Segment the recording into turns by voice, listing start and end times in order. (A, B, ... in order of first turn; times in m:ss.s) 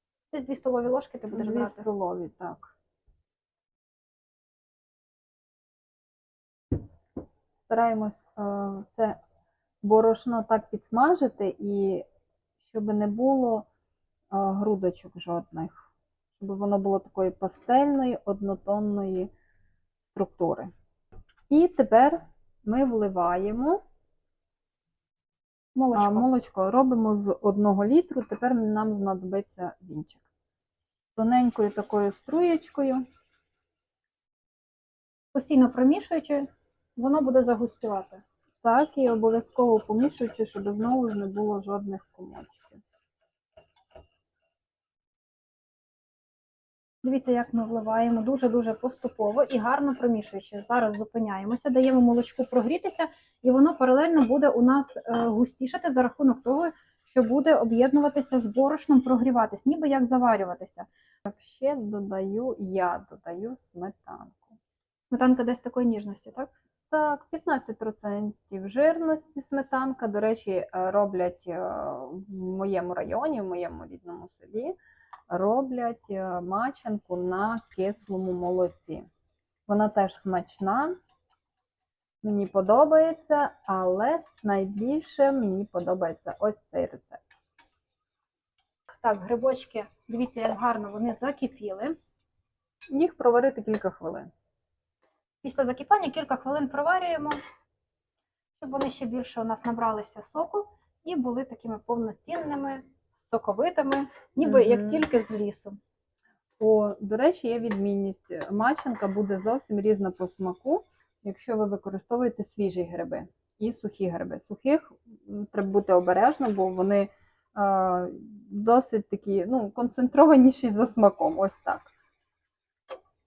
0:00.3-0:01.8 A
0:01.3-0:02.7 B
0:07.6-0:09.2 B
0:09.8-0:12.0 B
0:12.6-0:13.6 B
0:14.3-0:15.8 B
0:16.4-0:19.3 B
0:20.1-0:20.7 B
0:21.5-0:23.8 B
0:25.7-0:26.2 A
0:25.9-0:30.2 B
0:31.2-0:33.0 B
0:35.3-0:38.2 A
0:38.6-0:42.8 B
0:47.0-1:00.9 A
1:01.2-1:04.6 B
1:05.1-1:06.5 A
1:06.9-1:14.7 B
1:15.3-1:19.0 B
1:19.7-1:21.0 B
1:22.2-1:27.2 B
1:29.0-1:31.9 A
1:32.9-1:34.3 B
1:35.4-1:37.4 A
1:38.6-1:45.8 A
1:44.4-1:45.0 B
1:46.6-2:01.9 B